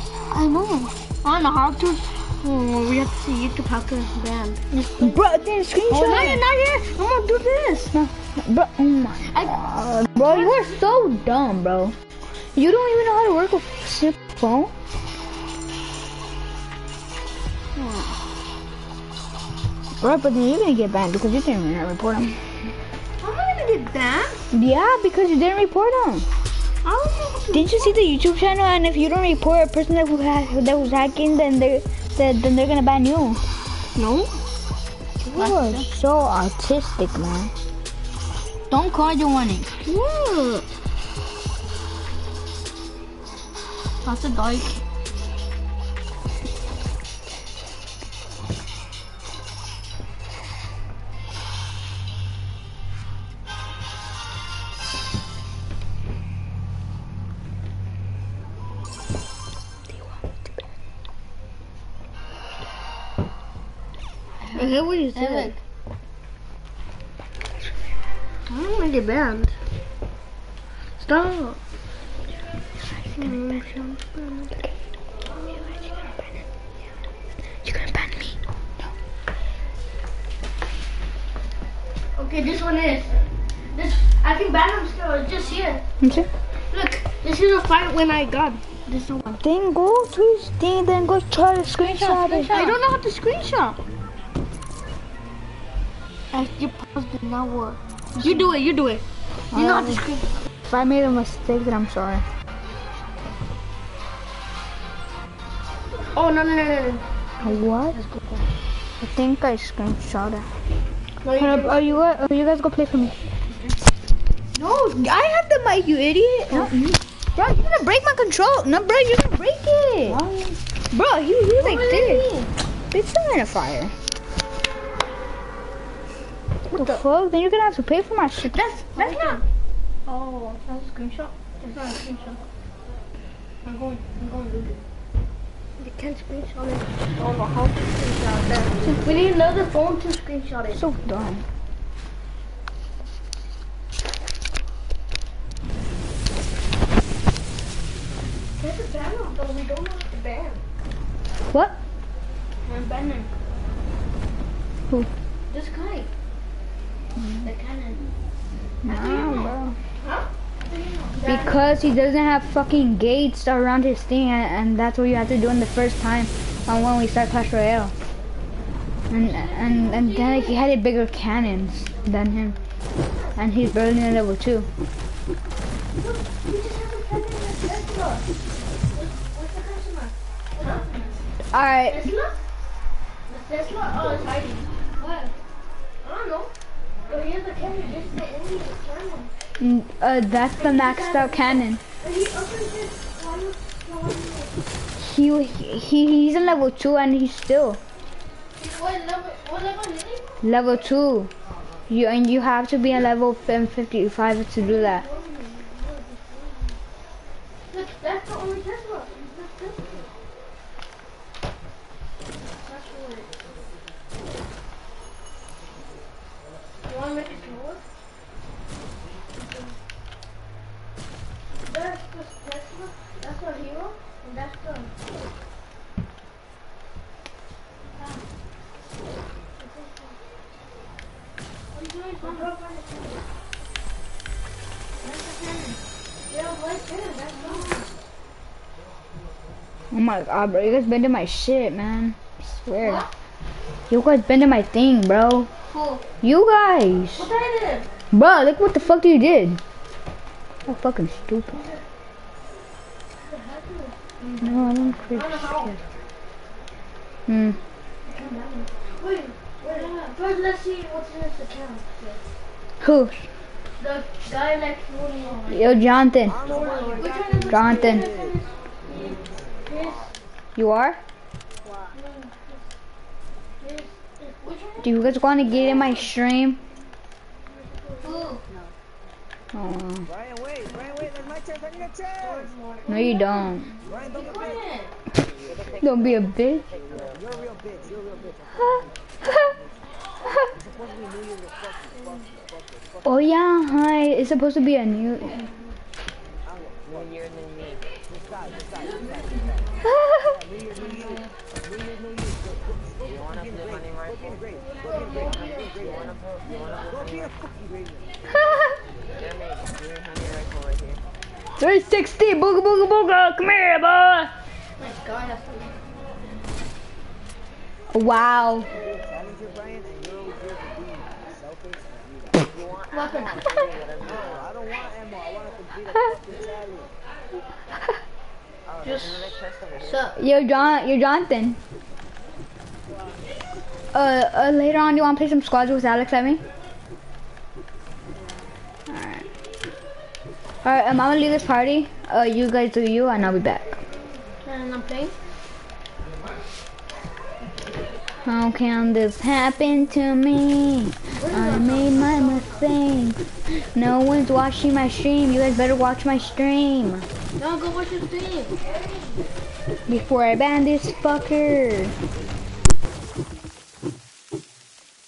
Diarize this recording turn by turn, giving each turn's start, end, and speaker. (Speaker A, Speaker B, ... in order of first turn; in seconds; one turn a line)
Speaker A: 0.3-5.1
Speaker B: 5.0-6.4
Speaker A: 5.9-7.9
Speaker B: 7.9-11.9
Speaker A: 9.3-9.5
Speaker A: 10.2-10.8
Speaker B: 12.6-14.7
Speaker B: 17.8-18.1
Speaker B: 20.0-22.4
Speaker A: 23.2-24.4
Speaker B: 24.5-26.2
Speaker A: 26.8-27.9
Speaker B: 27.5-33.4
Speaker A: 34.0-34.3
Speaker A: 35.2-35.8
Speaker B: 35.3-37.5
Speaker B: 38.7-39.7
Speaker A: 39.8-40.6
Speaker A: 44.0-44.8
Speaker B: 59.9-60.3
Speaker B: 64.5-65.5
Speaker A: 64.5-65.5
Speaker A: 68.5-69.5
Speaker A: 71.0-71.6
Speaker B: 73.1-73.5
Speaker A: 73.2-74.5
Speaker A: 75.3-76.1
Speaker B: 77.7-78.3
Speaker A: 82.2-83.2
Speaker A: 83.7-85.8
Speaker B: 86.0-86.3
Speaker A: 86.7-89.4
Speaker B: 89.4-92.7
Speaker A: 92.0-93.8
Speaker A: 96.3-100.3
Speaker B: 98.2-98.5
Speaker B: 99.5-100.0
Speaker B: 100.7-102.2
Speaker A: 106.1-107.0
Speaker B: 107.4-108.0
Speaker A: 108.0-108.4
Speaker B: 109.0-110.5
Speaker A: 111.2-111.9
Speaker B: 111.3-113.2
Speaker A: 114.5-114.9
Speaker B: 114.8-120.2
Speaker A: 116.5-116.8
Speaker A: 120.1-120.6
Speaker B: 120.9-122.2
Speaker A: 121.6-122.5
Speaker B: 122.9-123.9
Speaker B: 126.7-129.4
Speaker A: 126.7-127.0
Speaker A: 128.6-129.4
Speaker A: 130.1-132.4
Speaker A: 133.6-134.8
Speaker A: 135.8-140.8
Speaker B: 140.7-141.4
Speaker A: 148.6-150.6
Speaker A: 152.7-153.3
Speaker A: 155.5-156.1
Speaker A: 157.4-158.0
Speaker B: 158.8-159.8
Speaker A: 158.9-161.5
Speaker B: 161.2-167.9
Speaker B: 169.1-172.6
Speaker A: 169.2-170.6
Speaker B: 173.3-174.7
Speaker A: 176.0-178.2
Speaker A: 178.9-180.9
Speaker B: 181.5-182.1
Speaker A: 181.8-182.3
Speaker A: 183.3-185.3
Speaker A: 186.0-186.5
Speaker A: 187.1-189.3
Speaker B: 189.6-191.8
Speaker A: 190.6-194.5
Speaker B: 195.0-197.8
Speaker A: 198.6-200.4
Speaker B: 200.4-201.3
Speaker B: 201.9-205.0
Speaker A: 204.6-206.8
Speaker A: 207.7-210.1
Speaker A: 212.6-213.3
Speaker A: 216.8-217.8
Speaker A: 219.4-219.8
Speaker A: 221.6-224.9
Speaker A: 228.0-228.2
Speaker A: 229.6-230.2
Speaker A: 231.7-233.2
Speaker A: 235.0-235.8
Speaker A: 236.3-237.8
Speaker B: 239.9-243.0
Speaker A: 242.8-243.1
Speaker B: 243.9-245.5
Speaker A: 245.7-246.0
Speaker B: 246.2-247.3
Speaker A: 247.2-247.9
Speaker B: 248.1-249.6
Speaker B: 250.7-251.6
Speaker A: 253.2-254.5
Speaker B: 254.4-255.8
Speaker A: 255.1-255.7
Speaker B: 257.3-257.6
Speaker A: 258.1-262.2
Speaker B: 262.8-263.2
Speaker A: 263.8-265.9
Speaker B: 265.5-266.4
Speaker A: 266.4-270.1
Speaker B: 267.5-268.1
Speaker B: 270.5-271.0
Speaker A: 271.9-272.6
Speaker A: 273.6-275.0
Speaker B: 274.8-276.6
Speaker A: 277.8-278.4
Speaker B: 279.5-280.1
Speaker A: 282.2-283.5
Speaker B: 282.9-283.7
Speaker A: 284.1-284.9
Speaker B: 285.8-286.7
Speaker B: 288.5-289.5
Speaker B: 293.0-295.4
Speaker A: 298.8-299.6
Speaker B: 299.8-300.3
Speaker A: 300.8-301.2
Speaker C: 303.0-304.3
Speaker A: 304.6-306.7
Speaker C: 305.4-307.4
Speaker B: 308.3-308.7
Speaker C: 309.2-311.0
Speaker B: 311.6-314.3
Speaker A: 314.8-315.7
Speaker B: 317.9-318.7
Speaker A: 322.9-323.6
Speaker C: 323.5-324.5
Speaker C: 328.8-330.1
Speaker A: 328.8-330.2
Speaker B: 330.2-331.6
Speaker B: 333.9-336.4
Speaker B: 338.9-339.2
Speaker B: 340.6-343.7
Speaker A: 344.4-345.2
Speaker B: 348.2-357.1
Speaker A: 351.1-352.6
Speaker A: 357.4-359.2
Speaker B: 359.9-361.9